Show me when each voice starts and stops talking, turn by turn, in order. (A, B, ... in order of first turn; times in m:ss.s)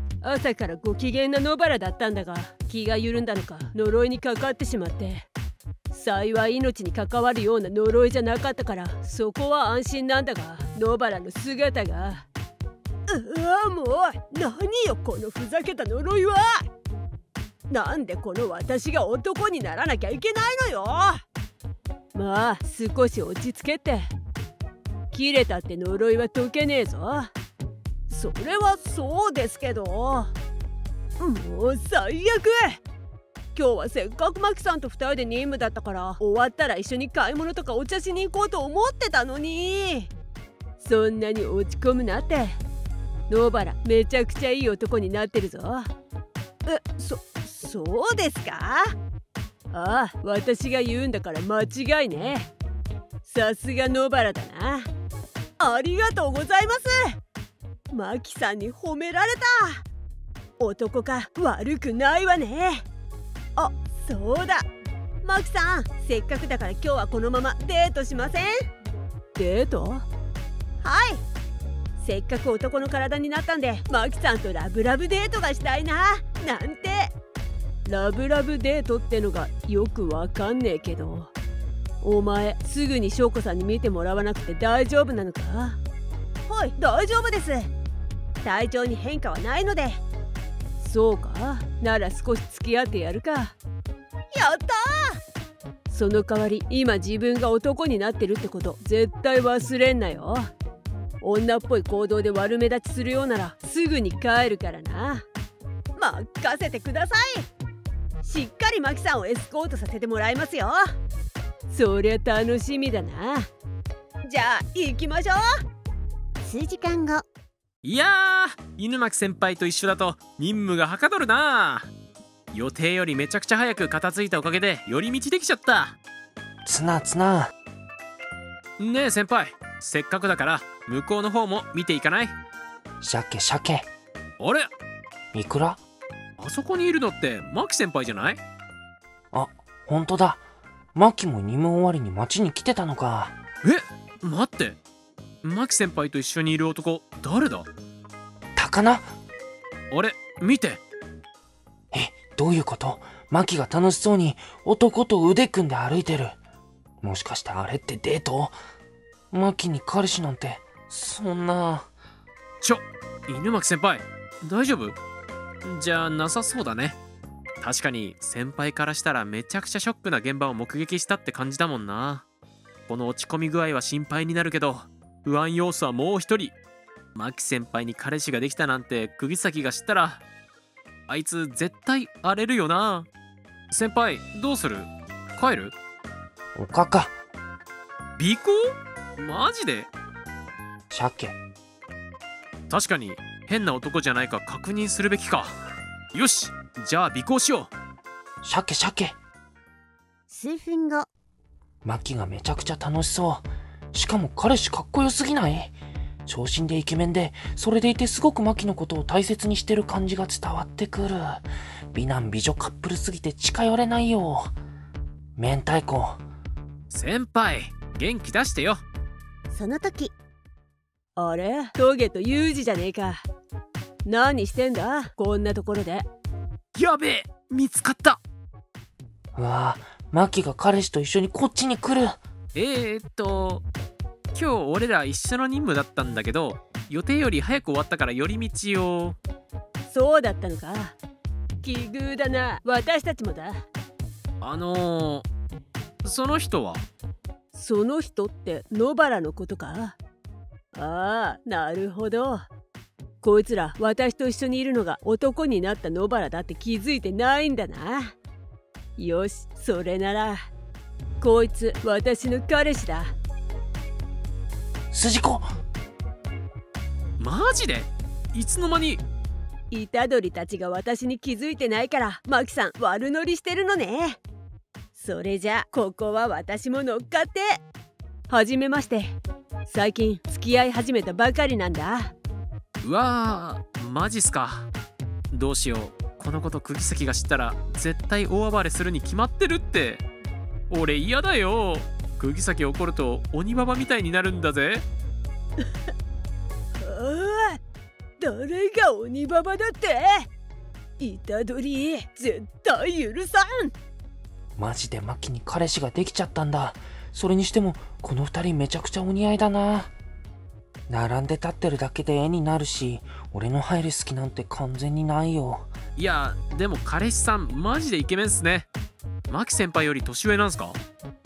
0:00.2-0:05.3 A
0:05.9-0:12.3 A
0:13.1-0:16.6 A
0:17.7-0:21.2 A
0:22.1-0:24.1 A
0:25.1-0:27.3 A
0:28.1-0:30.3 A
0:31.2-0:32.8 A
0:33.6-0:40.1 A
0:40.8-0:42.6 A
0:43.3-0:45.9 A
0:46.7-0:48.9 A
0:49.7-0:52.5 A
0:53.2-0:54.9 A
0:55.6-0:57.2 A
0:57.9-0:59.8 A
1:00.6-1:02.8 A
1:03.6-1:04.7 A
1:05.2-1:08.5 A
1:09.4-1:10.0 A
1:10.8-1:11.2 A
1:12.0-1:17.1 A
1:17.9-1:21.3 A
1:22.0-1:25.8 A
1:26.5-1:27.7 A
1:28.4-1:30.0 A
1:30.8-1:33.6 A
1:34.3-1:35.2 A
1:35.9-1:40.5 A
1:41.2-1:45.2 A
1:46.0-1:47.5 A
1:48.2-1:50.8 A
1:51.7-1:53.5 A
1:54.3-1:55.4 A
1:56.4-1:57.2 B
1:57.8-2:01.9 C
2:02.5-2:06.0 C
2:06.6-2:07.5 D
2:08.8-2:12.4 C
2:13.0-2:13.9 D
2:14.4-2:14.7 C
2:15.3-2:15.8 D
2:16.4-2:18.4 C
2:19.3-2:20.4 D
2:21.0-2:23.4 D
2:23.6-2:24.8 C
2:25.4-2:27.7 C
2:28.6-2:29.1 D
2:29.9-2:30.8 C
2:31.9-2:36.4 D
2:37.0-2:38.6 D
2:39.3-2:41.9 D
2:42.6-2:45.0 C
2:45.6-2:47.0 C
2:47.6-2:52.3 C
2:52.9-2:56.6 C
2:57.2-3:00.2 C
3:01.1-3:03.1 C
3:03.7-3:05.7 C
3:06.6-3:07.2 D
3:08.2-3:08.6 C
3:09.2-3:09.9 C
3:10.9-3:11.4 D
3:12.7-3:15.5 C
3:16.1-3:17.7 C
3:18.4-3:19.2 D
3:20.3-3:21.1 B
3:21.8-3:25.8 D
3:26.3-3:34.5 D
3:35.4-3:36.2 D
3:36.9-3:38.8 C
3:39.5-3:40.1 B
3:41.2-3:43.2 A
3:44.1-3:46.1 A
3:46.8-3:48.2 C
3:49.4-3:52.2 D
3:52.5-3:53.6 C
3:54.3-3:59.2 C
3:59.9-4:01.0 A
4:01.6-4:03.6 A
4:04.4-4:05.3 C
4:06.0-4:06.8 C
4:07.5-4:10.0 A
4:10.7-4:12.4 A
4:13.2-4:18.2 A
4:19.0-4:20.4 A
4:21.2-4:23.1 A
4:24.9-4:25.5 D
4:27.2-4:29.0 C
4:29.7-4:34.2 A
4:35.0-4:37.6 A
4:38.3-4:42.1 A
4:42.8-4:44.7 C
4:45.3-4:50.0 C
4:50.7-4:54.8 C
4:56.8-4:57.6 A
4:58.2-5:00.3 A
5:01.0-5:03.7 A
5:04.6-5:09.9 D
5:10.9-5:15.7 D
5:16.0-5:18.7 C
5:19.3-5:20.8 C